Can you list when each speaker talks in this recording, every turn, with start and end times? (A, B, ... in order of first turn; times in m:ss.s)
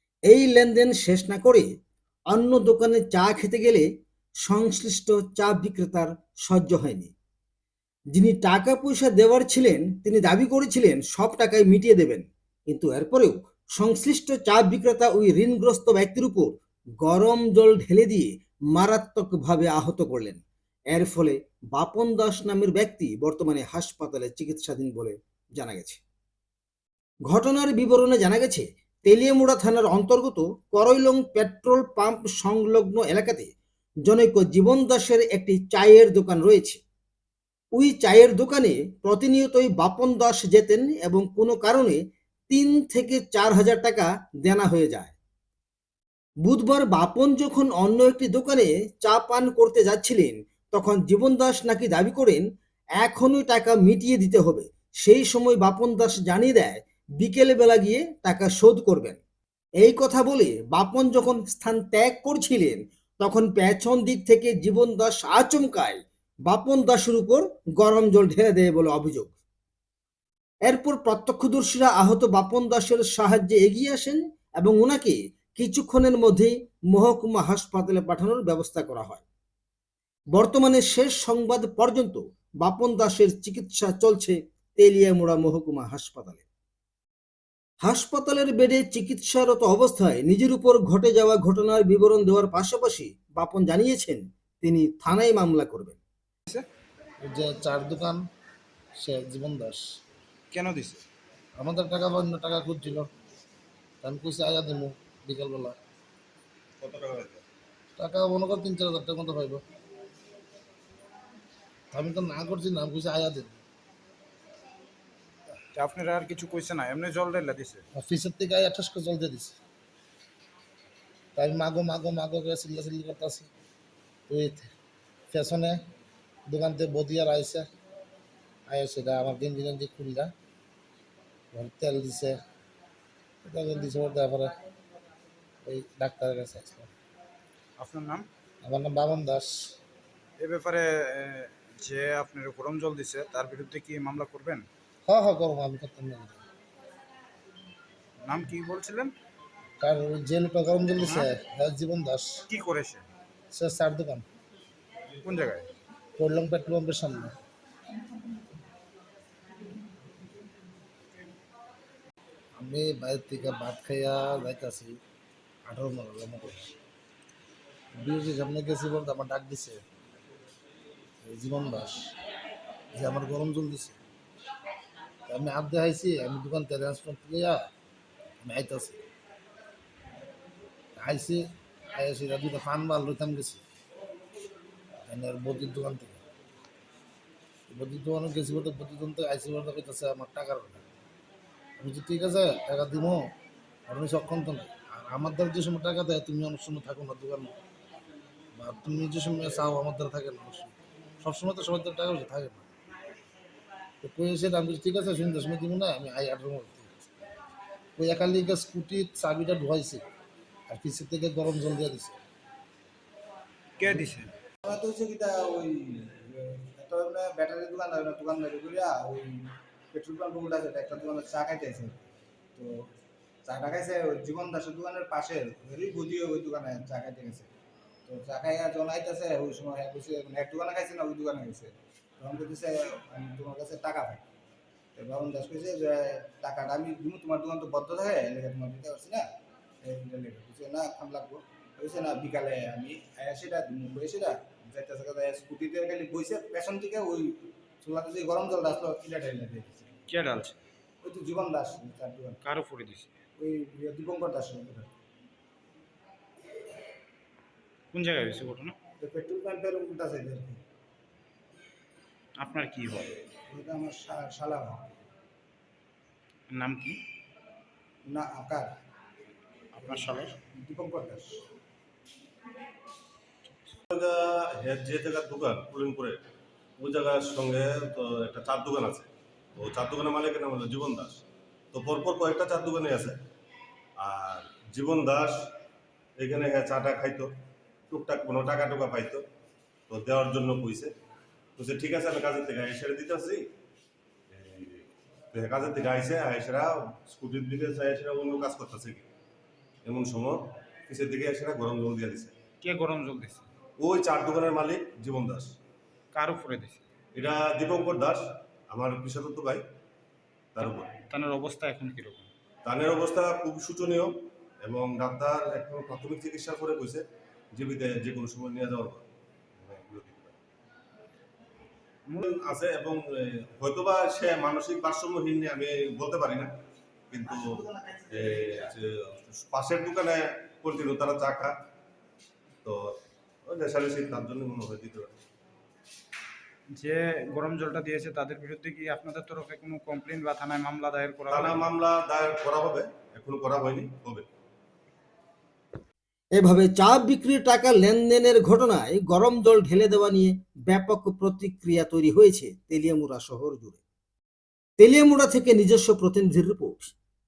0:00.3-0:01.6 A
0:02.3-0:03.8 A
0:04.4-0:07.1 A
0:08.1-0:20.4 A
0:20.9-0:26.0 A
0:27.3-0:33.5 A
0:34.0-0:36.8 A
0:37.7-0:42.0 A
0:42.5-0:45.1 A
0:46.4-0:52.4 A
0:53.0-0:59.2 A
0:59.8-1:09.3 A
1:10.6-1:19.2 A
1:20.3-1:26.4 A
1:27.8-1:36.0 A
1:37.2-1:38.2 B
1:39.0-1:39.8 B
1:40.5-1:41.0 C
1:41.6-1:43.1 B
1:44.0-1:45.8 B
1:46.8-1:47.4 D
1:48.0-1:49.6 B
1:51.9-1:53.6 B
1:55.7-1:57.8 C
1:57.9-1:59.6 B
2:01.3-2:03.5 B
2:04.3-2:04.7 B
2:05.3-2:05.8 B
2:06.5-2:07.7 B
2:08.7-2:10.3 B
2:11.5-2:12.4 B
2:13.4-2:14.6 B
2:15.6-2:16.9 B
2:17.8-2:18.3 C
2:18.6-2:19.8 B
2:20.4-2:24.7 C
2:25.0-2:26.4 B
2:28.2-2:29.1 C
2:29.8-2:32.4 B
2:31.0-2:31.3 C
2:32.5-2:33.0 C
2:33.5-2:34.2 B
2:35.2-2:35.7 C
2:36.2-2:37.3 B
2:42.6-2:45.0 B
2:45.6-2:46.7 B
2:47.9-2:49.8 B
2:51.2-2:52.1 B
2:52.9-2:54.0 B
2:55.3-2:57.7 B
2:58.4-2:59.0 B
3:01.0-3:03.6 B
3:05.1-3:06.2 B
3:07.7-3:10.8 B
3:11.8-3:13.3 B
3:13.9-3:17.6 B
3:18.6-3:22.7 B
3:24.0-3:26.9 B
3:28.0-3:30.0 B
3:30.7-3:32.2 B
3:33.8-3:34.3 C
3:34.6-3:42.0 E
3:43.4-3:47.5 E
3:48.1-3:54.2 E
3:54.9-3:59.2 E
3:59.8-4:10.0 E
4:10.1-4:10.6 C
4:11.0-4:12.4 E
4:12.4-4:13.1 C
4:13.4-4:14.9 E
4:17.9-4:18.7 C
4:19.0-4:20.6 E
4:22.4-4:23.2 C
4:23.5-4:24.9 E
4:26.5-4:27.0 C
4:28.0-4:28.7 E
4:29.7-4:30.4 C
4:30.5-4:31.4 E
4:33.9-4:36.2 D
4:36.8-4:43.2 D
4:44.0-4:45.4 D
4:46.2-4:47.3 D
4:47.9-4:49.2 D
4:49.9-4:50.9 D
4:51.6-4:53.4 D
4:54.3-4:59.0 D
4:59.8-5:02.3 D
5:02.6-5:03.5 C
5:03.8-5:05.5 D
5:06.1-5:06.8 C
5:07.1-5:09.6 D
5:10.5-5:10.9 D
5:10.6-5:12.3 C
5:12.6-5:17.0 D
5:17.5-5:19.0 D
5:19.6-5:20.4 D
5:22.2-5:26.5 D
5:27.1-5:31.5 D
5:32.6-5:32.9 D
5:33.4-5:35.1 D
5:36.7-5:41.7 C
5:41.3-5:44.2 D
5:46.4-5:53.8 A
5:54.8-5:56.9 A